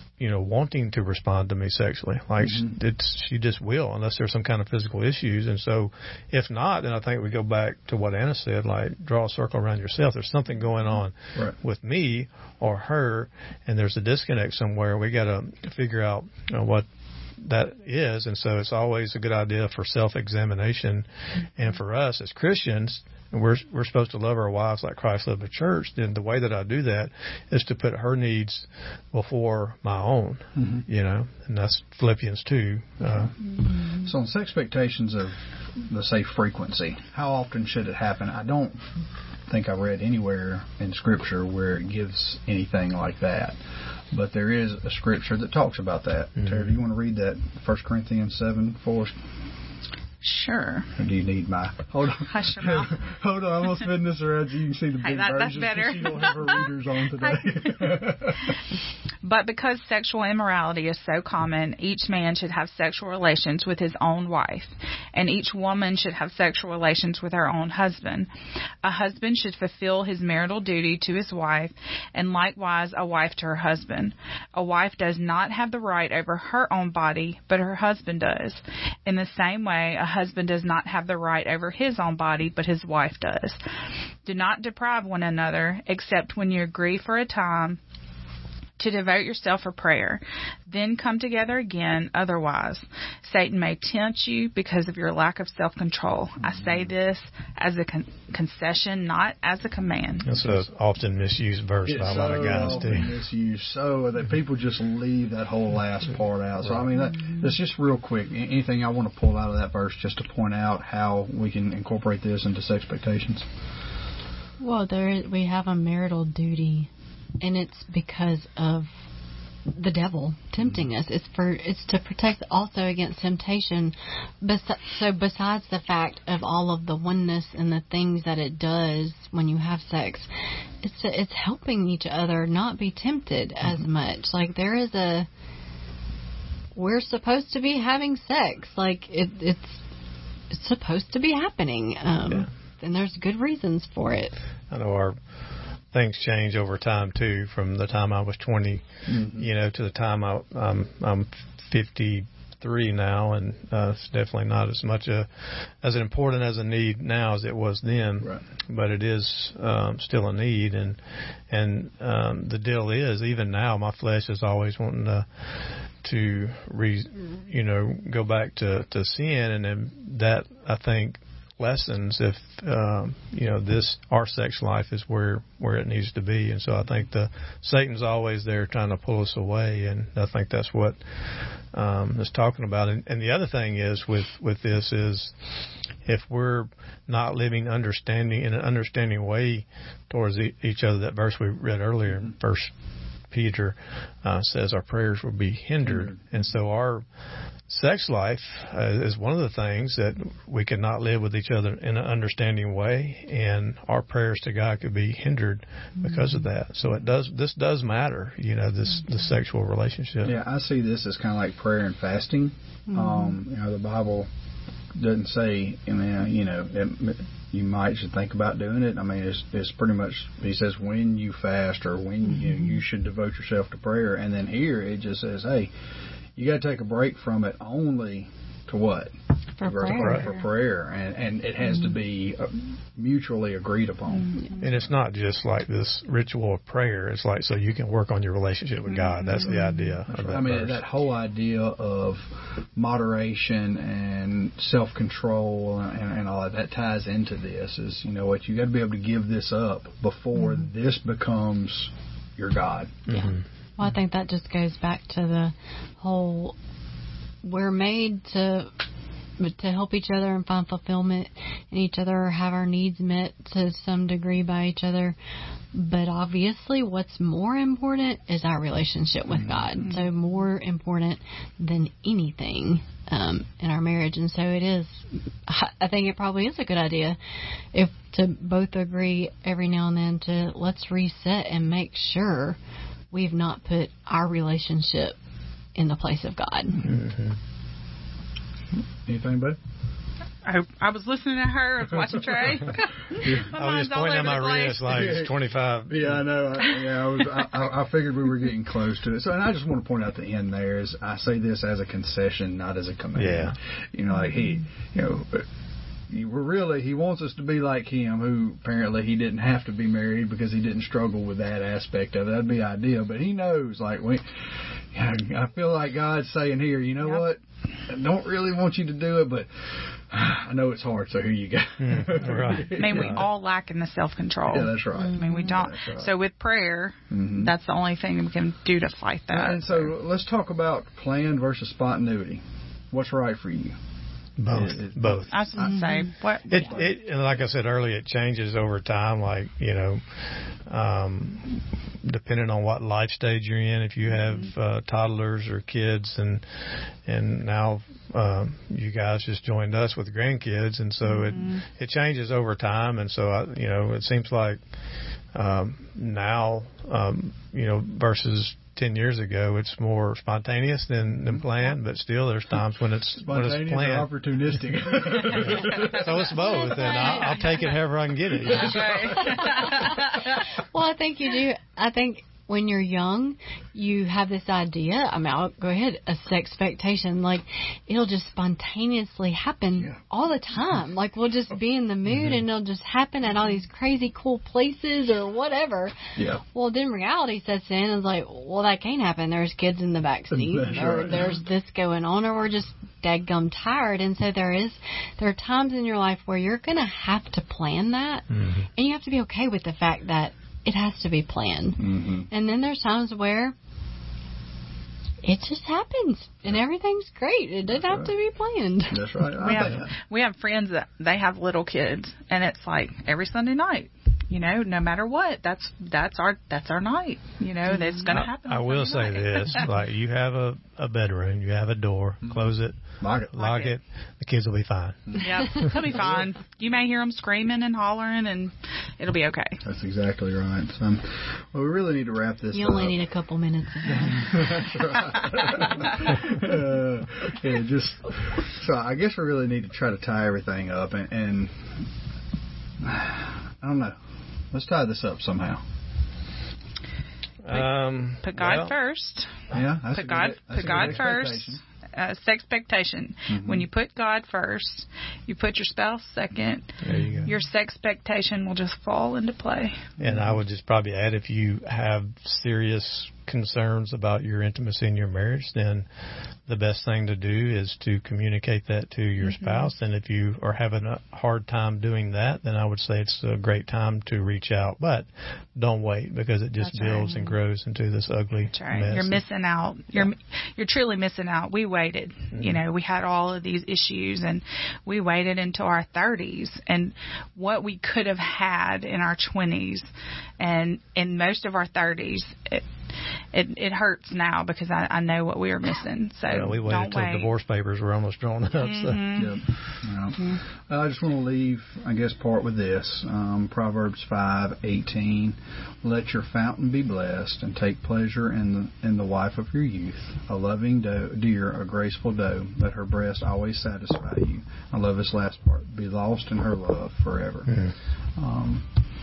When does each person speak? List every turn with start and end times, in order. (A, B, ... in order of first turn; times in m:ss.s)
0:00.2-0:16.8 A
0:02.4-0:02.7 B
0:17.4-0:33.3 A
0:30.6-0:30.8 B
0:33.1-0:38.9 B
0:39.5-0:43.6 B
0:44.1-0:49.2 B
0:46.4-0:46.7 A
0:50.2-0:50.9 C
0:51.0-0:58.6 B
0:52.2-0:53.0 C
0:55.0-0:56.7 C
0:57.3-0:58.0 C
0:59.2-1:08.3 C
1:08.8-1:23.6 C
1:24.2-1:27.8 C
1:28.8-1:40.3 C
1:36.4-1:36.9 B
1:40.2-1:43.1 A
1:41.8-1:53.5 B
1:54.6-1:58.9 D
1:59.7-2:10.3 D
2:10.8-2:15.3 D
2:16.8-2:19.8 D
2:20.5-2:24.3 D
2:24.7-2:25.2 A
2:25.9-2:35.3 A
2:29.0-2:29.5 B
2:35.8-2:41.0 A
2:41.5-2:45.3 A
2:46.0-3:01.0 A
3:01.7-3:05.3 A
3:06.0-3:12.7 A
3:13.3-3:17.0 A
3:15.8-3:16.2 B
3:17.7-3:30.3 A
3:30.2-3:34.3 B
3:34.9-3:45.7 B
3:46.4-3:54.4 B
3:49.6-3:50.2 D
3:49.8-3:50.3 C
3:54.6-4:00.8 A
4:00.1-4:13.0 B
4:13.1-4:13.4 A
4:13.1-4:16.6 D
4:17.4-4:18.7 D
4:19.4-4:25.2 D
4:25.7-4:37.2 D
4:29.3-4:29.8 B
4:37.7-4:42.6 D
4:43.1-4:45.2 D
4:45.7-4:46.9 D
4:46.8-4:47.4 A
4:49.0-4:49.6 B
4:50.4-4:55.2 C
4:53.1-4:53.5 B
4:53.4-4:56.2 A
4:54.9-5:05.5 B
5:03.2-5:03.6 A
5:06.1-5:23.3 B
5:21.8-5:23.2 A
5:22.7-5:29.9 C
5:24.5-5:26.1 B
5:25.0-5:25.5 D
5:27.1-5:27.5 B
5:29.3-5:33.8 B
5:34.4-5:35.4 A
5:34.5-5:35.8 B
5:35.3-5:36.8 C
5:35.6-5:36.1 D
5:36.5-5:40.0 A
5:36.5-5:36.9 B
5:40.7-5:46.4 A
5:44.0-5:44.5 C
5:47.0-5:54.6 A
5:51.0-5:51.6 C
5:55.3-6:04.1 A
6:03.2-6:06.2 B
6:04.9-6:09.6 A
6:06.2-6:07.7 D
6:08.5-6:10.3 C
6:08.7-6:09.0 B
6:09.1-6:43.5 D
6:22.1-6:22.4 A
6:26.2-6:26.4 B
6:30.3-6:31.4 B
6:38.3-6:38.6 A
6:41.8-6:42.3 B
6:45.2-6:49.2 D
6:47.7-6:48.1 B
6:48.9-6:49.9 B
6:49.3-6:59.8 C
6:58.1-7:05.8 A
7:03.0-7:03.3 B
7:03.4-7:03.7 C
7:05.1-7:06.3 B
7:05.2-7:09.6 C
7:09.6-7:13.0 B
7:12.5-7:14.7 D
7:13.8-7:21.8 B
7:22.8-7:24.0 B
7:24.5-7:25.6 B
7:27.4-7:28.8 A
7:27.5-7:29.4 C
7:29.5-7:31.6 B
7:29.9-7:39.8 C
7:33.3-7:33.7 B
7:36.8-7:37.3 A
7:40.0-7:40.4 B
7:40.0-7:45.8 A
7:46.5-7:59.2 A
7:49.2-7:49.7 C
7:56.6-7:57.4 C
7:58.5-8:12.6 C
8:02.3-8:02.6 A
8:13.3-8:17.3 C
8:16.3-8:19.0 A
8:18.5-8:19.4 C
8:19.1-8:38.7 B
8:37.5-8:37.7 A